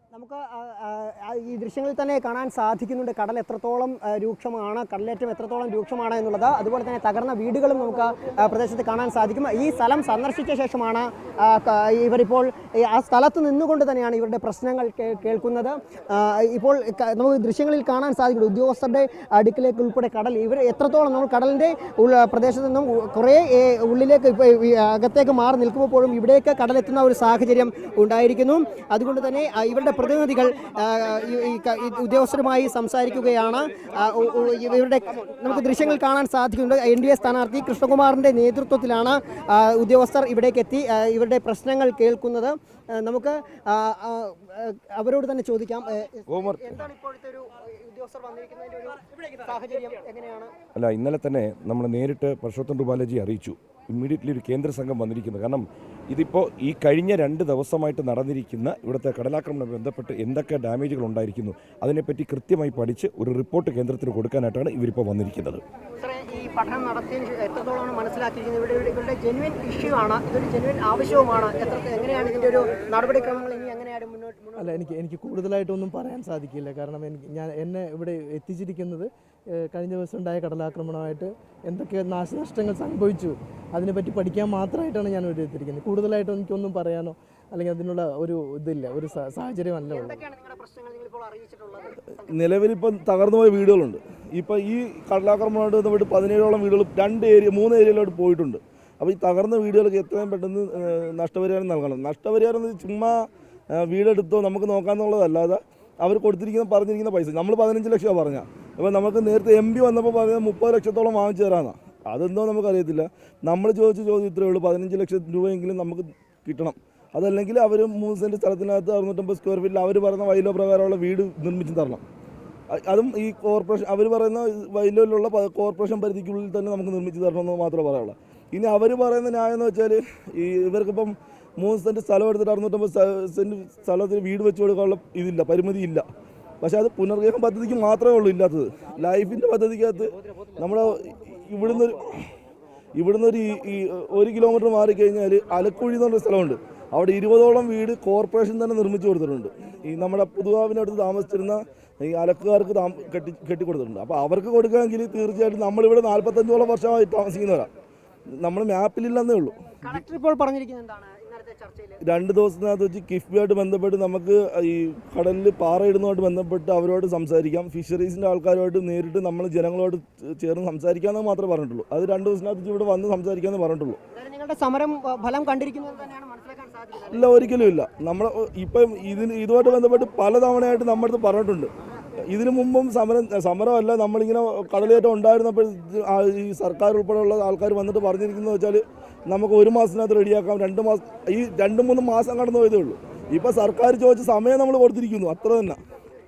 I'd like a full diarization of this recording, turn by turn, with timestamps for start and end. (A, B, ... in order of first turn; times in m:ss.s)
0:00.1-0:50.5 A
0:46.3-0:46.8 B
0:50.7-1:05.6 B
1:06.0-1:14.7 A
1:14.6-1:30.2 C
1:29.9-1:32.4 A
1:32.3-2:02.0 D
2:02.7-2:16.0 D
2:16.6-2:22.3 D
2:23.0-2:37.7 D
2:38.4-2:39.6 D
2:39.8-2:42.0 A
2:42.0-2:54.0 D
2:54.2-2:57.4 A
2:57.1-3:01.7 D
3:02.3-3:15.8 D